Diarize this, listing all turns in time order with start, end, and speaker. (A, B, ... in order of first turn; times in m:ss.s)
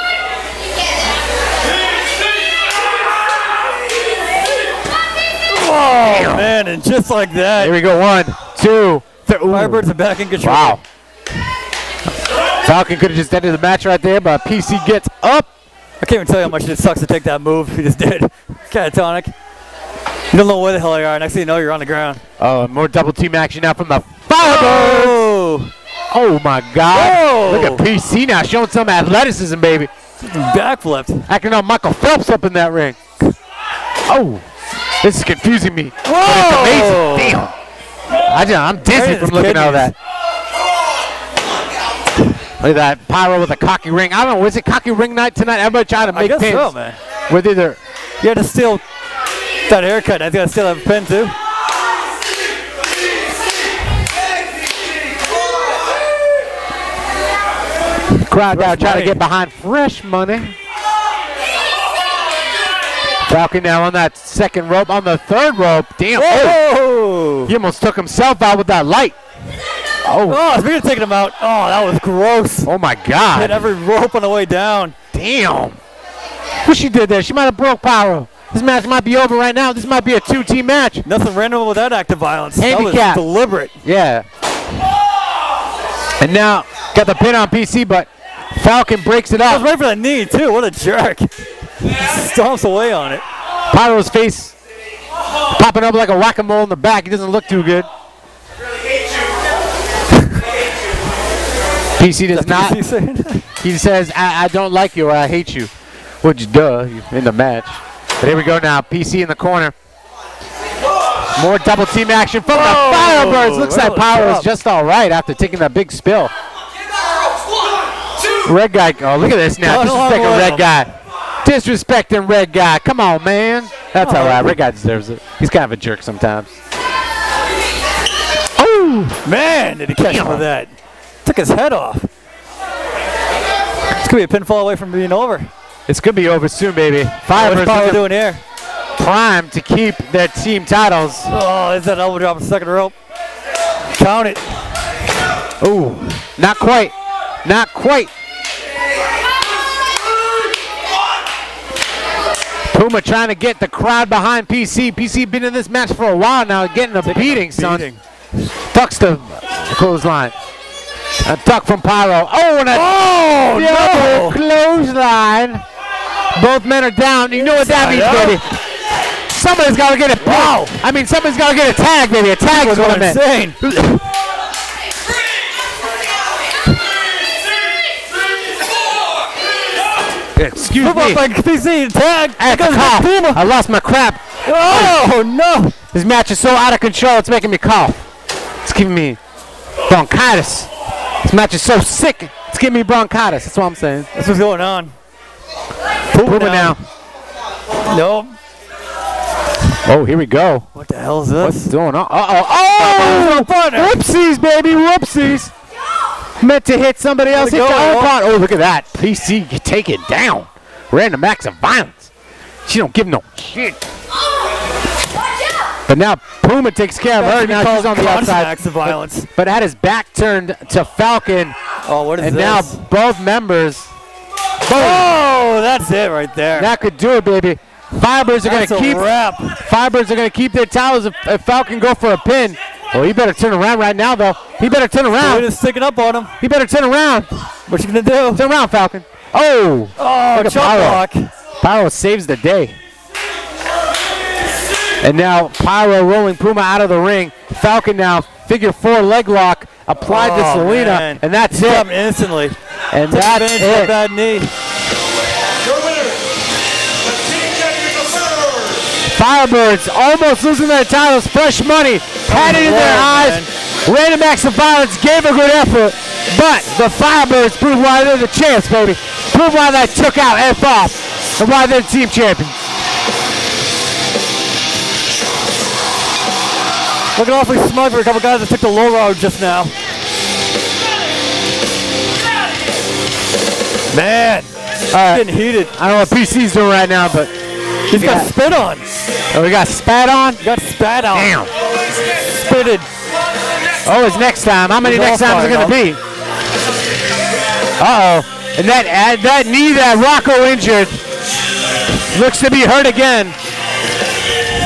0:05.5-0:07.8 A
0:06.0-0:06.5 B
0:07.6-0:09.8 B
0:09.5-0:10.8 A
0:10.4-0:10.8 B
0:12.6-0:15.5 B
0:16.0-0:19.3 A
0:20.3-0:22.2 A
0:22.4-0:25.2 B
0:24.4-0:25.7 A
0:26.1-0:29.9 B
0:26.9-0:27.8 A
0:30.2-0:31.2 A
0:31.3-0:33.3 B
0:34.1-0:34.4 B
0:35.0-0:37.5 B
0:36.0-0:37.4 A
0:38.2-0:39.9 B
0:38.9-0:39.9 A
0:42.6-0:46.7 B
0:46.1-0:47.0 A
0:47.3-0:47.8 B
0:48.2-0:48.8 A
0:49.7-0:51.3 A
0:58.3-1:00.6 B
0:58.4-0:59.2 A
1:03.2-1:06.6 B
1:06.2-1:07.5 A
1:07.5-1:09.2 B
1:10.0-1:10.4 B
1:10.3-1:12.7 A
1:12.6-1:13.7 B
1:13.3-1:14.9 A
1:15.1-1:15.8 B
1:16.6-1:21.0 B
1:21.0-1:23.7 A
1:22.6-1:23.2 B
1:23.8-1:24.2 B
1:26.2-1:29.7 B
1:29.4-1:31.3 A
1:31.8-1:33.2 A
1:33.7-1:34.6 B
1:35.5-1:37.9 B
1:42.0-1:42.8 B
1:42.3-1:43.4 A
1:43.6-1:45.7 B
1:46.2-1:49.7 B
1:51.4-1:56.3 B
1:52.5-1:54.5 A
1:58.4-2:00.9 B
1:59.6-2:00.7 A
2:01.4-2:06.5 B
2:04.0-2:04.6 A
2:08.6-2:09.2 B
2:09.2-2:10.7 A
2:10.0-2:10.4 B
2:11.2-2:12.1 A
2:13.9-2:15.5 A
2:15.9-2:18.1 B
2:17.3-2:18.4 A
2:19.0-2:21.3 B
2:21.3-2:22.9 A
2:23.9-2:24.6 A
2:25.6-2:26.9 B
2:27.4-2:28.1 B
2:32.7-2:37.8 B
2:37.0-2:38.0 A
2:38.7-2:40.3 B
2:41.2-2:45.6 B
2:42.7-2:44.4 A
2:46.3-2:48.5 B
2:47.3-2:48.4 A
2:49.3-2:53.9 B
2:50.2-2:50.8 A
2:52.5-2:54.0 A
3:00.4-3:01.2 B
3:00.7-3:03.4 A
3:02.4-3:05.1 B
3:04.4-3:05.7 A
3:05.9-3:08.0 B
3:08.6-3:09.2 B
3:09.9-3:10.7 B
3:11.2-3:14.1 B
3:14.1-3:14.9 A
3:16.1-3:16.8 A
3:16.2-3:16.8 B
3:17.9-3:18.3 A
3:19.8-3:20.7 B
3:20.7-3:21.7 A
3:21.4-3:25.5 B
3:22.8-3:24.0 A
3:26.4-3:32.1 B
3:27.3-3:28.1 A
3:32.7-3:33.8 B
3:35.9-3:41.6 B
3:37.2-3:39.3 A
3:41.8-3:42.8 A
3:42.2-3:43.9 B
3:44.7-3:45.1 B
3:44.7-3:46.7 A
3:46.6-3:49.0 B
3:48.4-3:49.6 A
3:49.6-3:55.5 B
3:55.2-3:56.3 A
3:56.4-3:57.3 B
3:57.7-3:58.4 A
3:58.3-4:01.0 B
4:00.0-4:01.3 A
4:01.6-4:02.7 B
4:05.0-4:11.9 B
4:10.1-4:12.6 A
4:12.9-4:13.9 B
4:13.1-4:14.5 A
4:15.6-4:16.2 C
4:17.0-4:18.9 C
4:19.1-4:32.5 B
4:22.3-4:23.5 A
4:37.2-4:39.7 A
4:43.9-4:44.5 A
4:44.9-4:47.3 B
4:45.1-4:45.7 A
4:47.9-4:48.8 A
4:47.9-4:48.3 B
4:49.3-4:50.4 B
4:50.4-4:51.4 A
4:51.1-4:51.5 B
4:52.2-4:52.9 A
4:53.8-4:56.0 B
4:54.8-4:55.8 A
4:57.8-5:01.0 B
5:02.1-5:03.3 B